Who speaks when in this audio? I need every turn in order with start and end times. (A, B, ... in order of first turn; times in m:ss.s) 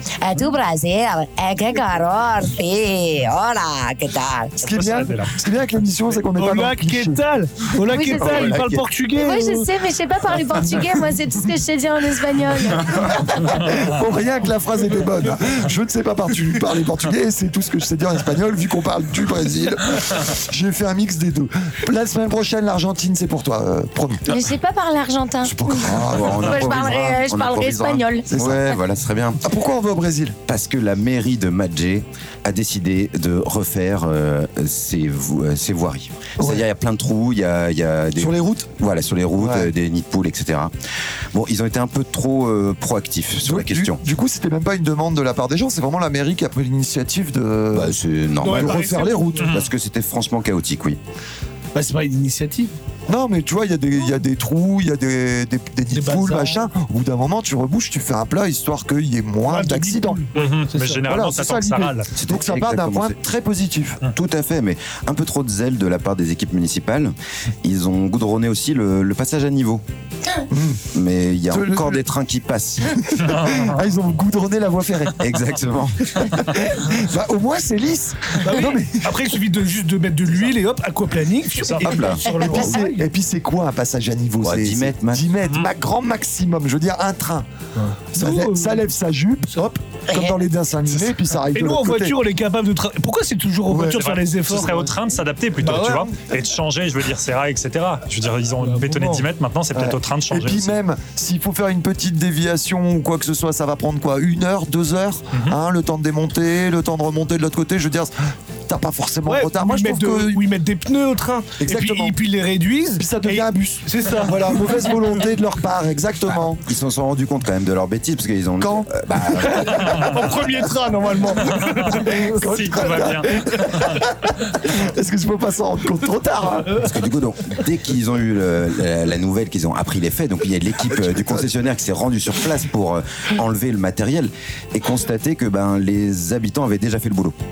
0:00.2-0:04.5 A
0:04.6-0:05.3 B
0:04.6-0:07.2 C
0:06.3-0:09.7 D
0:07.9-0:08.5 A
0:08.1-0:08.9 E
0:09.2-0:13.1 A
0:12.9-0:24.3 C
0:24.3-0:28.3 A
0:25.4-0:26.8 C
0:25.8-0:29.4 E
0:28.3-0:28.8 C
0:29.4-0:30.4 C
0:30.5-0:40.7 E
0:36.4-0:36.6 C
0:38.2-0:38.7 C
0:39.4-0:39.7 C
0:41.3-0:44.0 E
0:43.4-0:49.6 C
0:47.7-0:51.0 E
0:48.4-0:49.5 D
0:49.4-0:49.7 B
0:51.7-0:52.7 D
0:53.1-1:00.2 C
0:55.9-0:56.6 D
0:59.5-1:01.0 D
1:00.4-1:02.1 B
1:01.1-1:04.0 C
1:02.2-1:03.2 E
1:04.1-1:09.8 E
1:10.5-1:10.8 C
1:10.9-1:13.1 E
1:11.5-1:12.0 C
1:13.0-1:15.2 C
1:13.2-1:13.8 B
1:15.2-1:16.3 E
1:16.2-1:19.4 C
1:18.4-1:23.0 D
1:21.6-1:21.9 B
1:21.8-1:22.9 E
1:22.2-1:27.5 C
1:24.4-1:25.2 E
1:27.8-1:28.8 D
1:28.1-1:32.2 C
1:31.5-1:34.9 D
1:33.8-1:40.8 B
1:35.6-1:36.2 D
1:38.6-1:39.3 D
1:39.7-1:48.1 C
1:45.3-1:45.6 B
1:48.7-1:50.4 C
1:49.3-1:55.0 D
1:51.6-1:52.2 C
1:53.0-1:56.6 C
1:56.6-2:00.0 E
1:58.6-2:00.3 C
1:59.7-2:02.2 D
2:01.5-2:04.0 B
2:01.9-2:06.8 C
2:06.8-2:17.4 E
2:10.9-2:11.5 C